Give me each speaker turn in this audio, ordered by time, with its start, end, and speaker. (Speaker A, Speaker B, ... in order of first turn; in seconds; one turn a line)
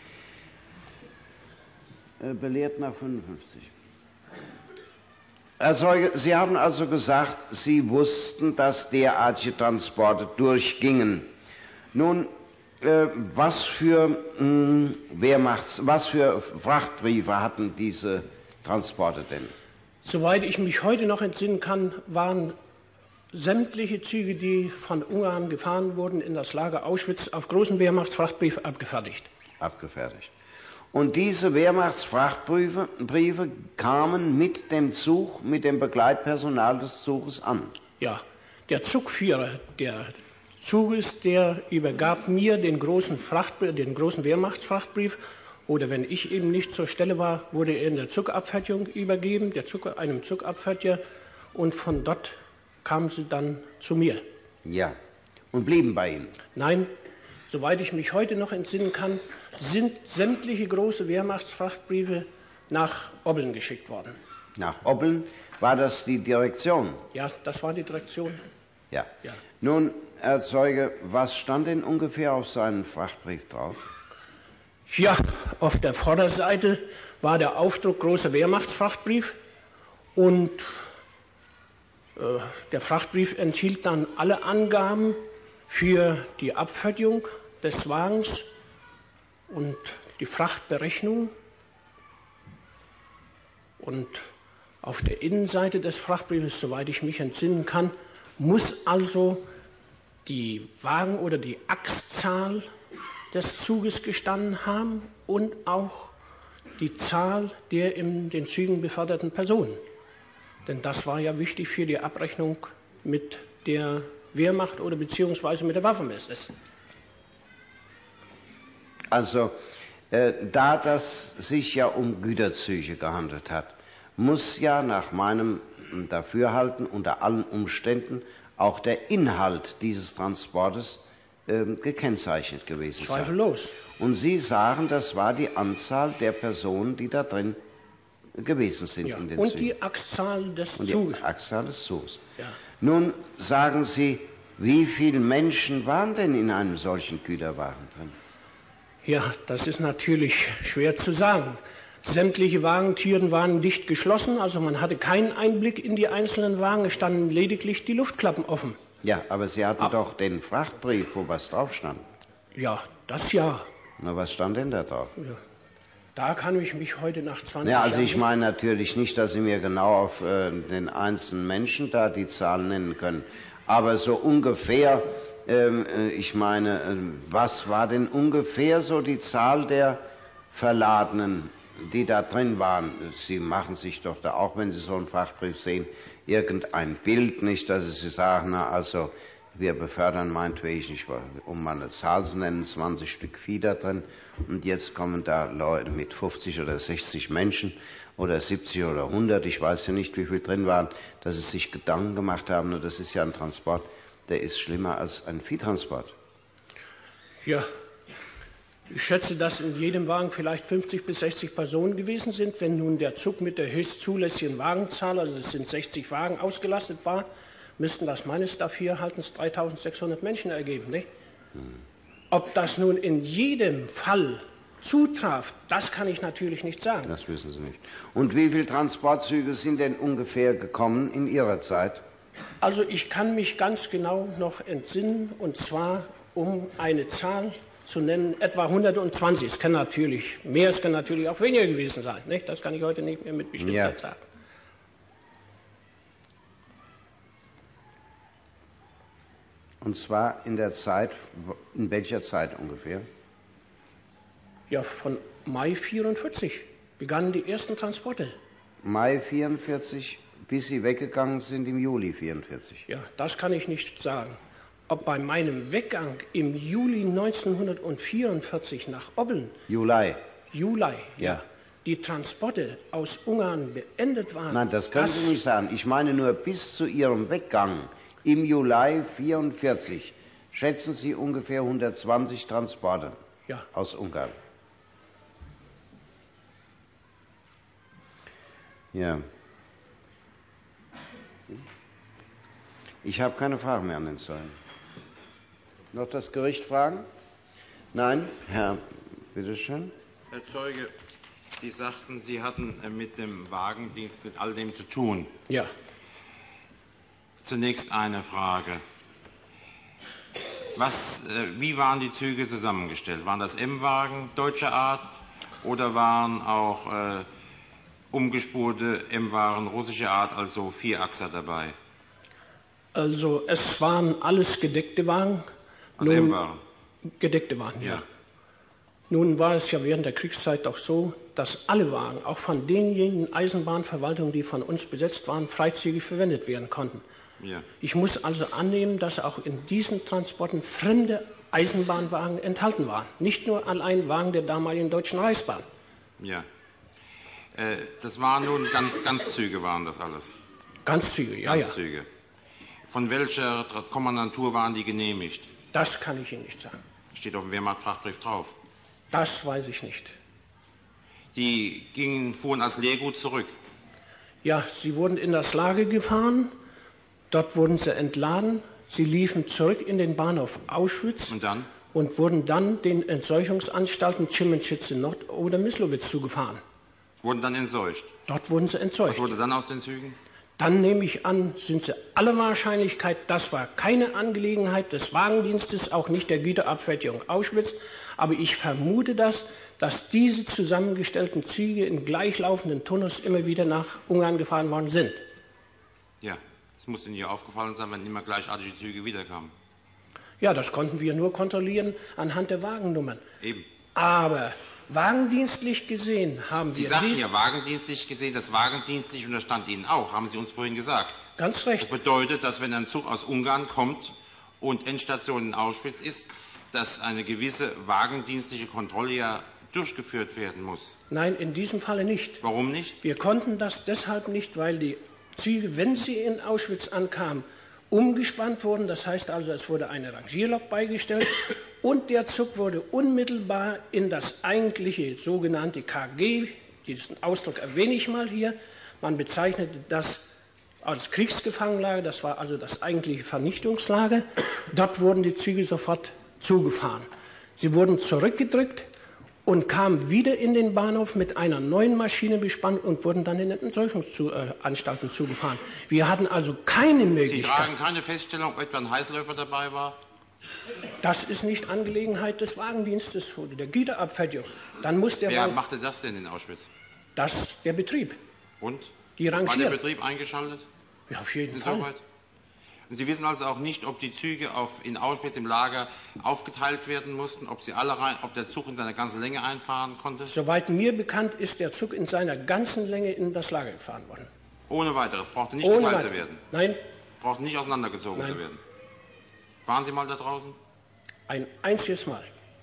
Speaker A: 2.2-3.7
Speaker A: 5.6-11.3
Speaker A: 11.9-19.5
Speaker B: 20.0-22.6
Speaker B: 23.3-29.3
Speaker A: 29.6-30.3
Speaker A: 30.9-37.8
Speaker B: 38.0-51.0
Speaker B: 51.5-54.2
Speaker A: 54.6-55.0
Speaker A: 55.5-56.4
Speaker B: 56.5-56.9
Speaker B: 57.5-64.2
Speaker A: 64.5-67.0
Speaker B: 67.1-68.4
Speaker A: 68.9-73.9
Speaker B: 74.9-79.4
Speaker B: 80.2-80.9
Speaker B: 82.2-88.5
Speaker B: 89.5-91.3
Speaker B: 93.8-94.3
Speaker B: 94.8-99.5
Speaker B: 100.2-102.7
Speaker B: 103.3-106.1
Speaker B: 106.8-109.8
Speaker B: 110.7-116.5
Speaker A: 119.1-119.5
Speaker A: 120.1-133.3
Speaker B: 133.0-133.8
Speaker A: 134.0-137.6
Speaker A: 138.3-139.7
Speaker B: 139.0-141.2
Speaker A: 140.8-142.2
Speaker A: 142.8-148.2
Speaker B: 149.0-158.8
Speaker A: 159.0-162.1
Speaker B: 162.5-163.7
Speaker A: 164.0-165.1
Speaker B: 166.1-168.2
Speaker A: 167.6-180.0
Speaker A: 180.5-206.1
Speaker B: 208.9-221.1
Speaker B: 222.3-227.1
Speaker A: 227.1-232.0
Speaker B: 232.6-244.2
Speaker A: 243.6-243.9
Speaker A: 249.8-253.1
Speaker B: 254.7-258.4
Speaker A: 258.8-262.8
Speaker B: 262.9-269.5
Speaker A: 269.7-270.2
Speaker B: 270.5-275.4
Speaker A: 274.5-283.2
Speaker A: 283.7-284.4
Speaker A: 288.9-289.3
Speaker A: 293.0-294.6
Speaker A: 295.9-297.1
Speaker A: 297.9-299.9
Speaker C: 300.3-300.9
Speaker C: 301.5-305.3
Speaker C: 307.4-308.8
Speaker C: 310.7-317.3
Speaker C: 318.1-321.7
Speaker B: 322.9-325.5
Speaker C: 326.0-326.6
Speaker B: 326.0-326.4
Speaker B: 327.0-328.0
Speaker B: 329.1-337.0
Speaker C: 337.4-337.6
Speaker B: 337.8-345.6
Speaker C: 346.2-346.4
Speaker C: 347.5-350.4
Speaker B: 350.9-351.8
Speaker C: 351.4-352.1
Speaker C: 352.9-355.5
Speaker B: 355.7-356.8
Speaker C: 357.1-358.5
Speaker B: 359.1-360.1
Speaker C: 361.3-363.5
Speaker B: 364.4-366.5
Speaker B: 367.3-371.3
Speaker C: 371.3-371.7
Speaker B: 371.9-376.6
Speaker C: 377.2-378.1
Speaker B: 378.3-379.3
Speaker C: 379.1-380.2
Speaker B: 380.6-395.2
Speaker C: 396.2-399.5
Speaker B: 400.4-403.2
Speaker C: 403.4-403.7
Speaker B: 403.9-407.2
Speaker C: 406.7-411.2
Speaker B: 411.4-411.9
Speaker C: 411.8-420.9
Speaker B: 421.1-422.4
Speaker C: 422.4-423.0
Speaker B: 423.0-440.2
Speaker B: 440.8-447.1
Speaker B: 447.6-448.9
Speaker B: 449.4-457.7
Speaker C: 457.3-460.0
Speaker B: 461.0-465.6
Speaker C: 465.3-466.7
Speaker B: 467.1-468.2
Speaker C: 468.6-470.6
Speaker B: 469.2-469.8
Speaker B: 471.1-471.9
Speaker C: 471.5-472.0
Speaker C: 472.9-480.3
Speaker B: 480.3-484.3
Speaker C: 484.7-486.4
Speaker B: 485.6-486.8
Speaker C: 487.2-488.6
Speaker C: 489.6-490.6
Speaker B: 491.3-492.3